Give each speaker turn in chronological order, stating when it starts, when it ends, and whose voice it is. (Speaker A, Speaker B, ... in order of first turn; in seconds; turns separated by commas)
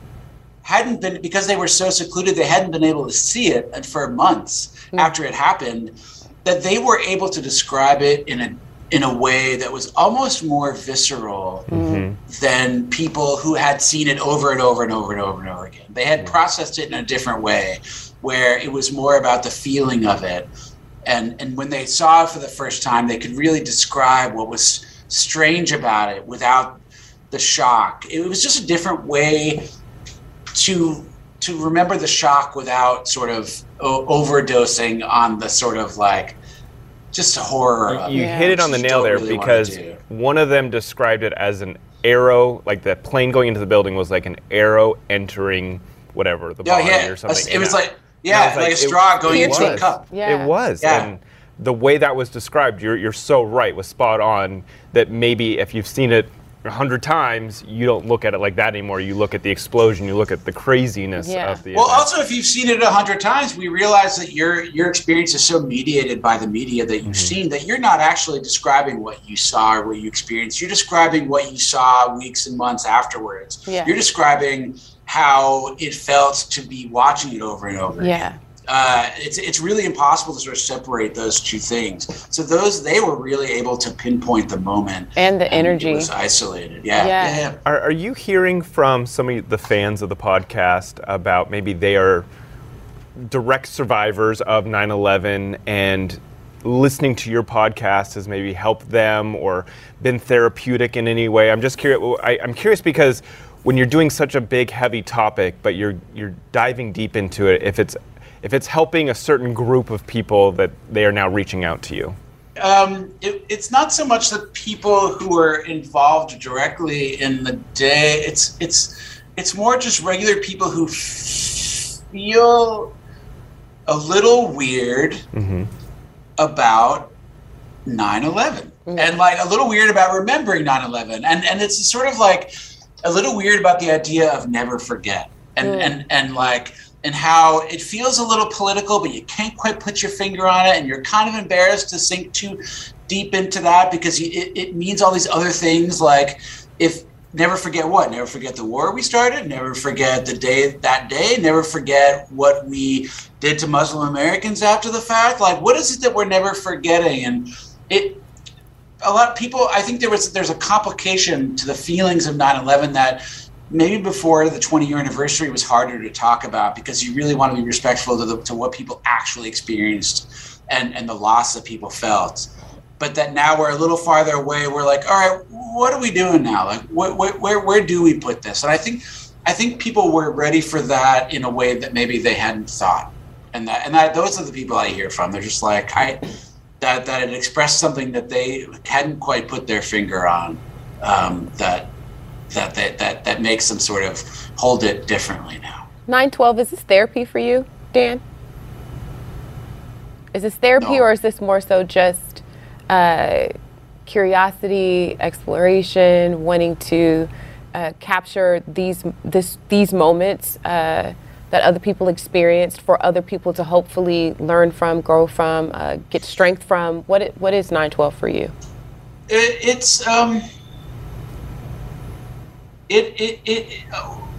Speaker A: 0.6-20.5, Speaker B: 11.7-12.2, Speaker C: 11.7-12.1, Speaker A: 21.1-26.8, Speaker A: 27.3-29.7, Speaker A: 30.5-36.4, Speaker A: 37.1-40.0, Speaker B: 37.9-62.1, Speaker C: 38.1-38.5, Speaker A: 46.6-50.1, Speaker C: 49.3-50.5, Speaker A: 50.8-51.1, Speaker C: 61.2-61.6, Speaker A: 61.8-87.6, Speaker B: 67.0-67.3, Speaker C: 73.7-74.0, Speaker C: 78.0-78.4, Speaker C: 85.2-86.1, Speaker C: 87.0-87.5, Speaker B: 87.7-92.3, Speaker B: 93.2-112.2, Speaker A: 112.6-122.9, Speaker A: 123.9-125.3, Speaker B: 125.3-125.7, Speaker A: 126.4-127.1, Speaker A: 127.9-132.5, Speaker C: 128.9-129.1, Speaker A: 133.0-158.2, Speaker C: 135.6-135.9, Speaker A: 159.0-186.3, Speaker A: 186.8-191.9, Speaker A: 192.5-195.9, Speaker C: 196.1-198.2, Speaker C: 200.3-203.5, Speaker A: 200.8-201.1, Speaker C: 204.1-218.5, Speaker A: 219.3-220.4, Speaker A: 222.9-224.2